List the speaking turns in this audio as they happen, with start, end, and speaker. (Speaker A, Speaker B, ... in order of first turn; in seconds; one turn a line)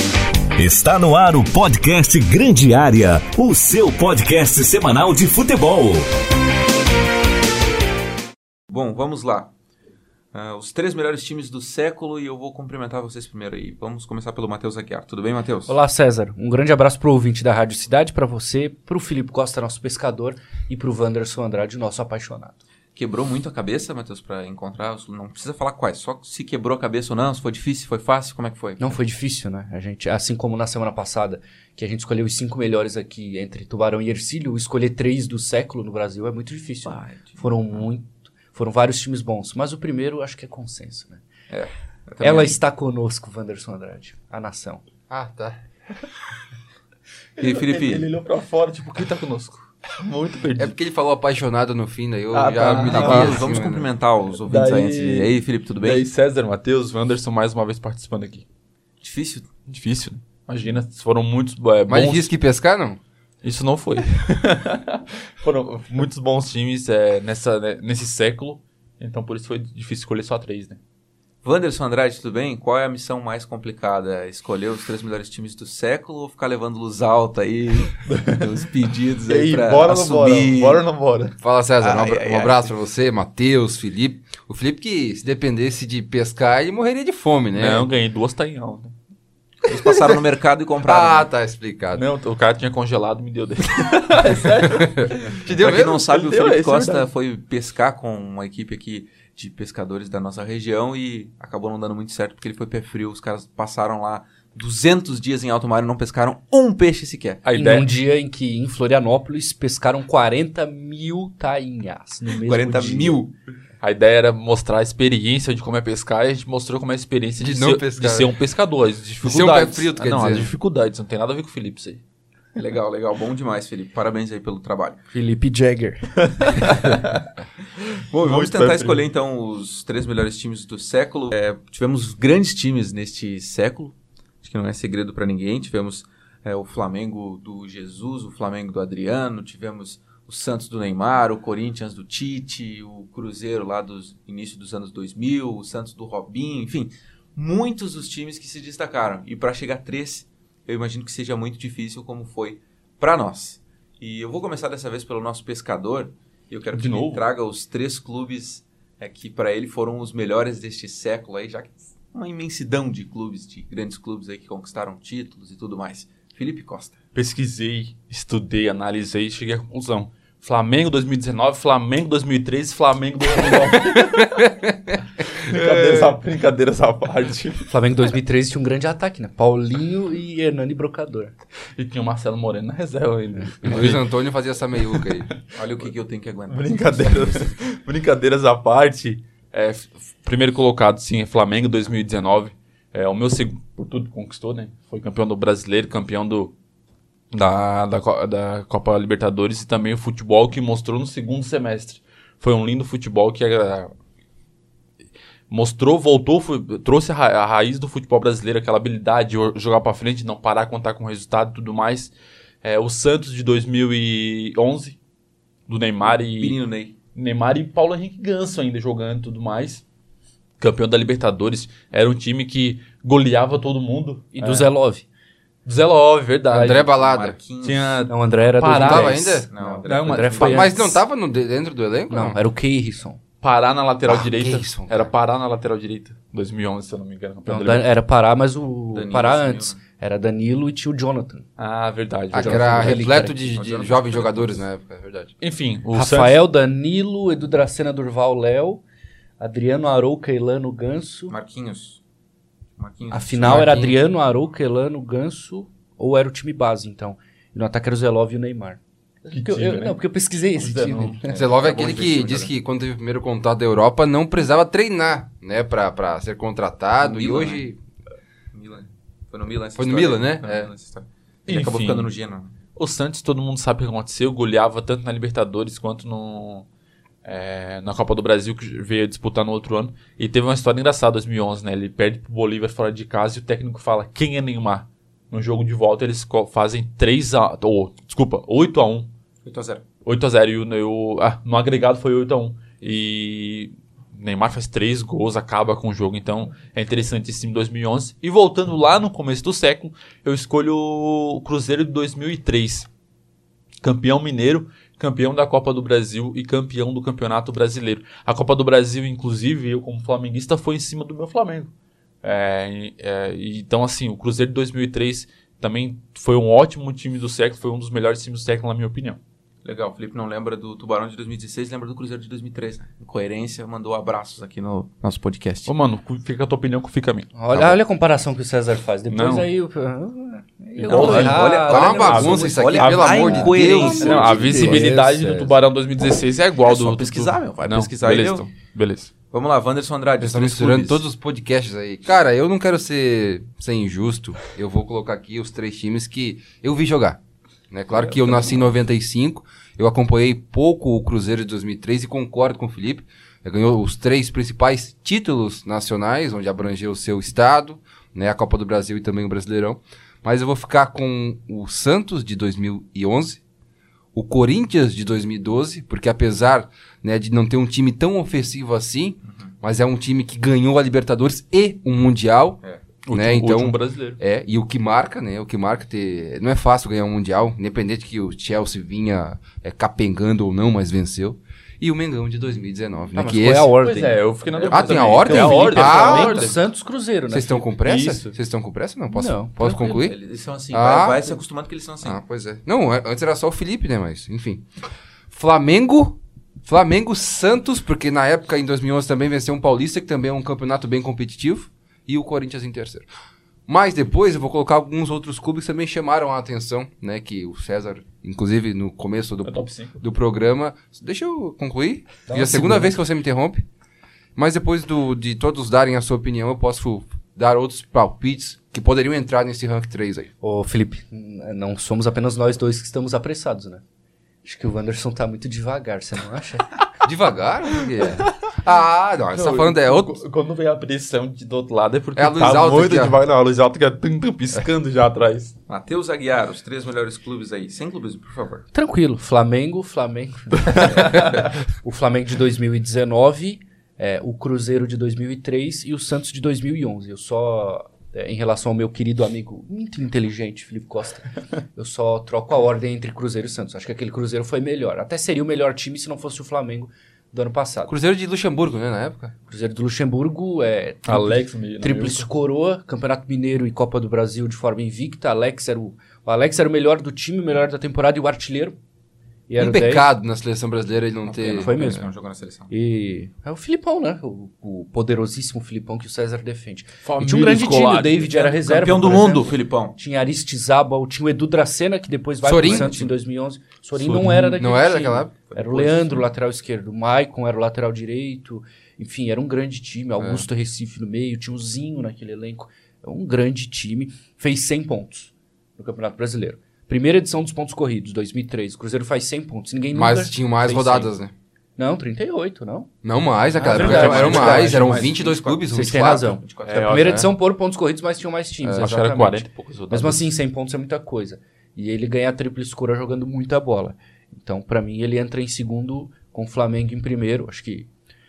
Speaker A: 0.6-6.1
Speaker B: 8.7-9.5
Speaker B: 10.3-15.8
Speaker C: 15.7-22.6
Speaker B: 22.9-29.0
Speaker C: 28.8-41.2
Speaker B: 36.9-37.8
Speaker B: 41.5-42.6
Speaker C: 42.2-44.8
Speaker D: 45.1-45.6
Speaker B: 47.4-48.1
Speaker E: 47.4-50.8
Speaker D: 50.6-53.9
Speaker E: 52.3-53.6
Speaker B: 52.8-56.1
Speaker E: 54.5-58.5
Speaker B: 59.0-59.5
Speaker E: 59.7-62.3
Speaker D: 61.9-63.0
Speaker E: 63.4-70.8
Speaker B: 71.4-80.8
Speaker E: 78.1-78.5
Speaker E: 79.3-81.4
Speaker D: 81.4-87.9
Speaker B: 81.8-82.7
Speaker E: 87.6-88.9
Speaker B: 89.6-91.3
Speaker E: 89.8-90.1
Speaker D: 90.9-92.0
Speaker E: 91.9-97.1
Speaker D: 94.8-96.0
Speaker B: 95.5-107.4
Speaker E: 107.5-107.9
Speaker C: 107.5-113.2
Speaker B: 112.3-113.3
Speaker E: 113.8-122.0
Speaker D: 117.4-118.3
Speaker D: 119.2-120.5
Speaker B: 122.6-125.0
Speaker C: 125.1-126.8
Speaker E: 126.3-127.3
Speaker B: 128.0-167.0
Speaker E: 128.2-129.0
Speaker E: 156.7-157.2
Speaker E: 167.2-177.7
Speaker D: 174.4-176.2
Speaker C: 177.7-181.3
Speaker E: 181.8-184.1
Speaker C: 183.4-183.8
Speaker D: 183.6-185.3
Speaker E: 184.9-185.4
Speaker B: 185.5-187.6
Speaker E: 186.5-196.5
Speaker E: 197.3-203.9
Speaker E: 205.5-215.0
Speaker E: 215.7-216.6
Speaker B: 216.0-217.0
Speaker E: 217.2-219.8
Speaker E: 220.6-224.7
Speaker C: 224.3-225.0
Speaker E: 225.7-226.9
Speaker D: 226.5-227.4
Speaker B: 226.9-228.1
Speaker E: 227.6-230.8
Speaker C: 228.1-231.0
Speaker D: 228.7-229.5
Speaker B: 229.5-230.6
Speaker D: 230.4-232.4
Speaker C: 232.1-233.2
Speaker E: 233.4-237.8
Speaker D: 234.1-235.1
Speaker C: 237.5-241.4
Speaker B: 238.9-239.8
Speaker E: 241.6-243.1
Speaker D: 242.3-245.3
Speaker C: 242.3-243.6
Speaker B: 243.5-244.7
Speaker E: 245.4-246.4
Speaker C: 245.9-248.8
Speaker C: 249.4-251.3
Speaker B: 251.3-252.0
Speaker B: 252.8-253.8
Speaker C: 253.1-261.4
Speaker D: 253.4-254.0
Speaker E: 259.3-260.0
Speaker E: 260.6-261.2
Speaker D: 261.2-267.8
Speaker B: 261.3-262.5
Speaker B: 267.0-267.7
Speaker B: 268.5-272.5
Speaker D: 269.8-270.7
Speaker E: 271.5-272.1
Speaker E: 272.8-276.7
Speaker E: 277.2-289.1
Speaker B: 289.5-289.8
Speaker E: 290.0-302.9
Speaker E: 303.8-311.7
Speaker E: 312.2-319.2
Speaker B: 319.6-325.7
Speaker E: 325.7-327.3
Speaker C: 327.3-332.6
Speaker D: 327.5-327.8
Speaker E: 329.1-329.5
Speaker E: 330.8-339.1
Speaker B: 330.9-334.8
Speaker D: 331.0-334.7
Speaker C: 333.2-335.6
Speaker B: 336.6-338.5
Speaker B: 339.3-341.0
Speaker D: 340.2-347.2
Speaker D: 347.7-363.4
Speaker B: 347.9-348.6
Speaker D: 364.1-372.6
Speaker B: 369.3-369.5
Speaker E: 373.1-374.2
Speaker D: 373.1-383.7
Speaker C: 383.1-384.2
Speaker E: 383.8-386.6
Speaker B: 384.5-386.5
Speaker D: 384.7-386.5
Speaker C: 385.3-387.7
Speaker D: 387.3-390.1
Speaker E: 387.9-388.3
Speaker C: 389.1-390.1
Speaker B: 390.0-392.2
Speaker D: 390.7-391.4
Speaker D: 392.0-394.7
Speaker D: 395.3-403.1
Speaker D: 403.7-413.6
Speaker E: 409.4-410.0
Speaker C: 412.3-412.9
Speaker D: 414.4-420.3
Speaker C: 420.4-423.8
Speaker C: 424.4-426.8
Speaker D: 427.0-430.2
Speaker E: 428.0-428.3
Speaker E: 429.3-435.6
Speaker D: 432.2-433.2
Speaker B: 435.7-438.7
Speaker C: 438.7-457.9
Speaker D: 457.9-459.3
Speaker C: 459.5-468.8
Speaker E: 461.1-462.3
Speaker C: 469.5-470.1
Speaker D: 469.6-472.0
Speaker B: 471.2-472.7
Speaker C: 471.6-472.0
Speaker C: 472.7-501.1
Speaker E: 477.0-479.1
Speaker B: 478.7-480.0
Speaker D: 482.4-482.9
Speaker B: 482.6-483.1
Speaker E: 484.0-484.4
Speaker D: 484.1-485.3
Speaker B: 485.5-486.3
Speaker D: 490.2-490.4
Speaker D: 499.9-501.3
Speaker C: 501.8-502.9
Speaker D: 503.0-506.4
Speaker C: 503.6-504.9
Speaker E: 503.6-505.1
Speaker B: 504.0-507.0
Speaker C: 505.7-517.9
Speaker E: 506.6-507.3
Speaker D: 507.0-507.3
Speaker D: 508.6-508.9
Speaker E: 508.8-510.3